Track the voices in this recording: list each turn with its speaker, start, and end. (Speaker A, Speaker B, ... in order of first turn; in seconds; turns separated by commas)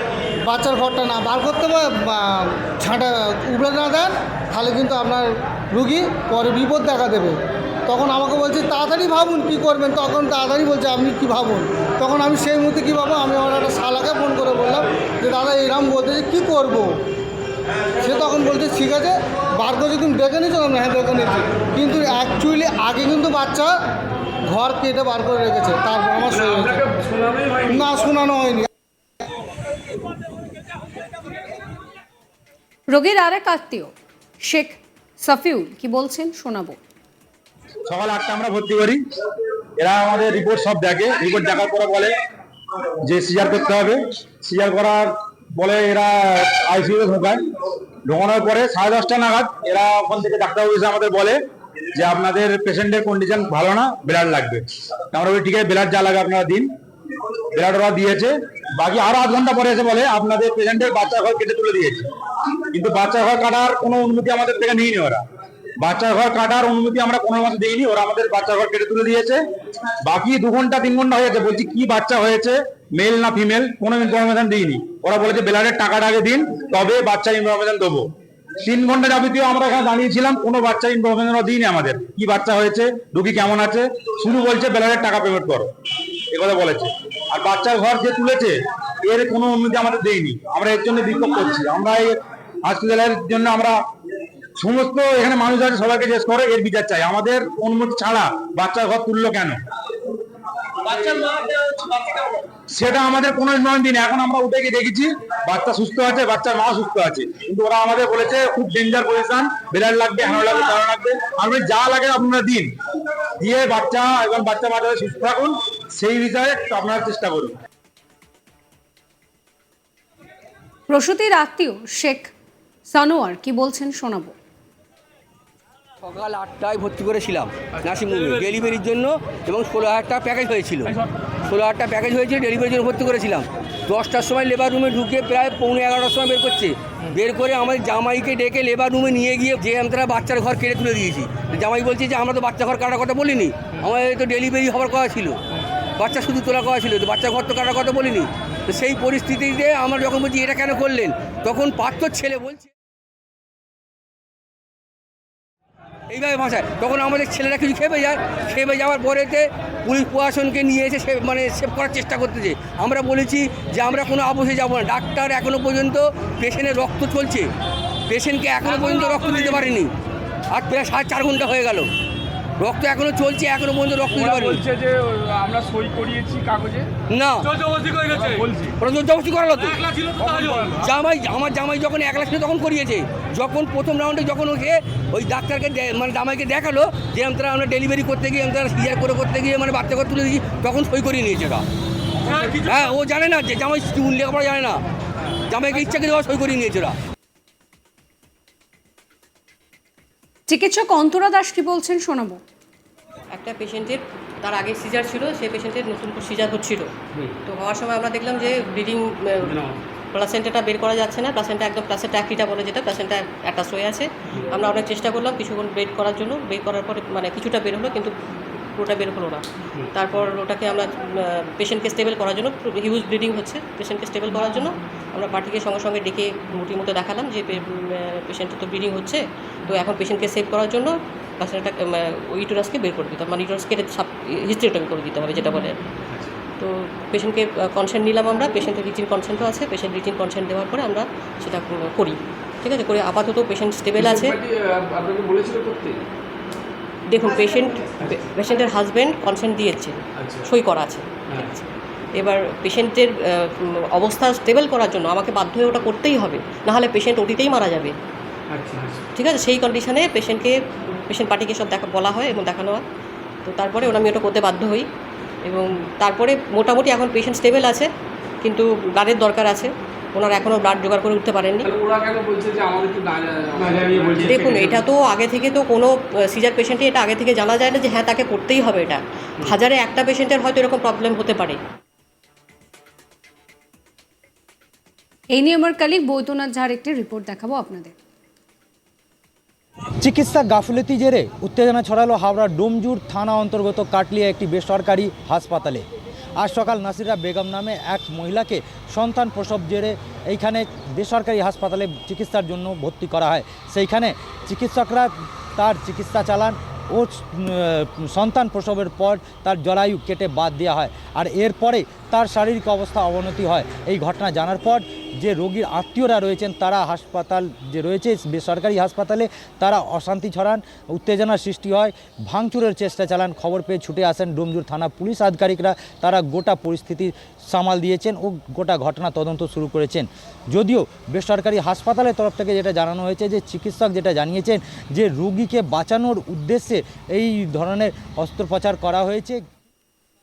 Speaker A: 0.5-16.9, Speaker A: 18.0-23.7, Speaker A: 24.5-28.7, Speaker B: 32.9-36.8, Speaker C: 37.9-39.0, Speaker C: 39.8-42.1, Speaker C: 43.0-47.4, Speaker C: 48.1-51.4, Speaker C: 52.0-56.7, Speaker C: 57.5-65.2, Speaker C: 65.8-69.4, Speaker C: 70.0-78.1, Speaker C: 78.6-85.7, Speaker C: 86.3-93.8, Speaker C: 94.6-99.6, Speaker C: 100.7-112.7, Speaker C: 113.4-117.5, Speaker B: 120.9-122.3, Speaker B: 122.9-124.3, Speaker D: 126.0-130.9, Speaker D: 131.5-145.4, Speaker D: 146.0-152.7, Speaker D: 156.1-167.5, Speaker D: 168.1-169.9, Speaker E: 168.7-169.7, Speaker D: 170.5-171.9, Speaker D: 172.6-174.6, Speaker E: 174.1-176.9, Speaker D: 177.1-178.2, Speaker E: 178.1-178.8, Speaker D: 178.8-191.6, Speaker E: 180.4-180.8, Speaker D: 192.4-194.8, Speaker D: 195.5-197.0, Speaker B: 200.5-202.4, Speaker F: 203.3-206.9, Speaker F: 207.5-209.6, Speaker E: 209.5-209.8, Speaker F: 210.1-218.1, Speaker F: 218.7-235.8, Speaker F: 236.6-244.4, Speaker E: 244.0-246.0, Speaker F: 247.1-257.9, Speaker E: 250.2-250.5, Speaker E: 258.5-259.1, Speaker F: 259.2-262.8, Speaker F: 263.4-264.9, Speaker F: 265.5-267.9, Speaker F: 268.4-271.7, Speaker E: 271.7-274.8, Speaker F: 274.3-281.6, Speaker B: 285.3-287.9, Speaker G: 290.0-295.9, Speaker G: 296.4-339.4